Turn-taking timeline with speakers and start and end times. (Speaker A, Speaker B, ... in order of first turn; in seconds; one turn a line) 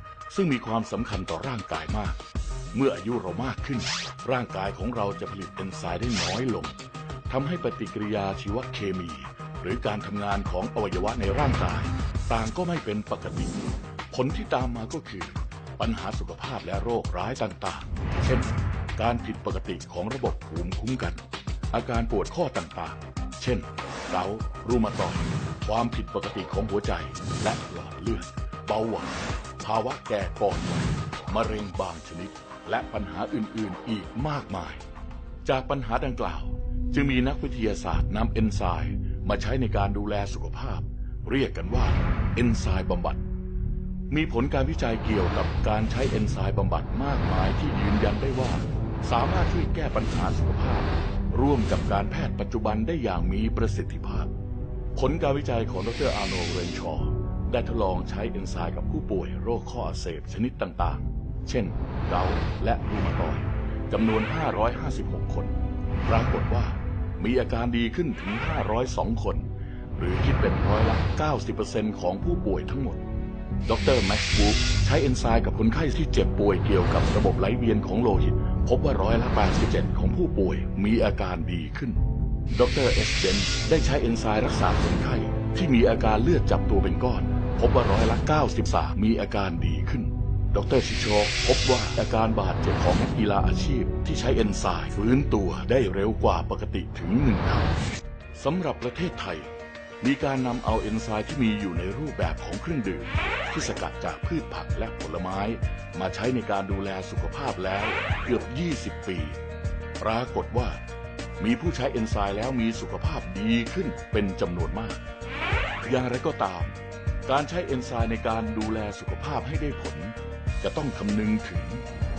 Speaker A: 0.3-2.2
Speaker A: 2.7-6.8
Speaker A: 7.3-34.8
Speaker A: 35.5-43.2
Speaker A: 44.1-54.3
Speaker A: 55.0-73.0
Speaker A: 73.7-82.0
Speaker A: 82.5-97.7
Speaker A: 98.3-99.5
Speaker A: 100.0-109.4
Speaker A: 110.0-110.8
Speaker A: 111.4-115.0
Speaker A: 115.8-116.8
Speaker A: 117.3-121.8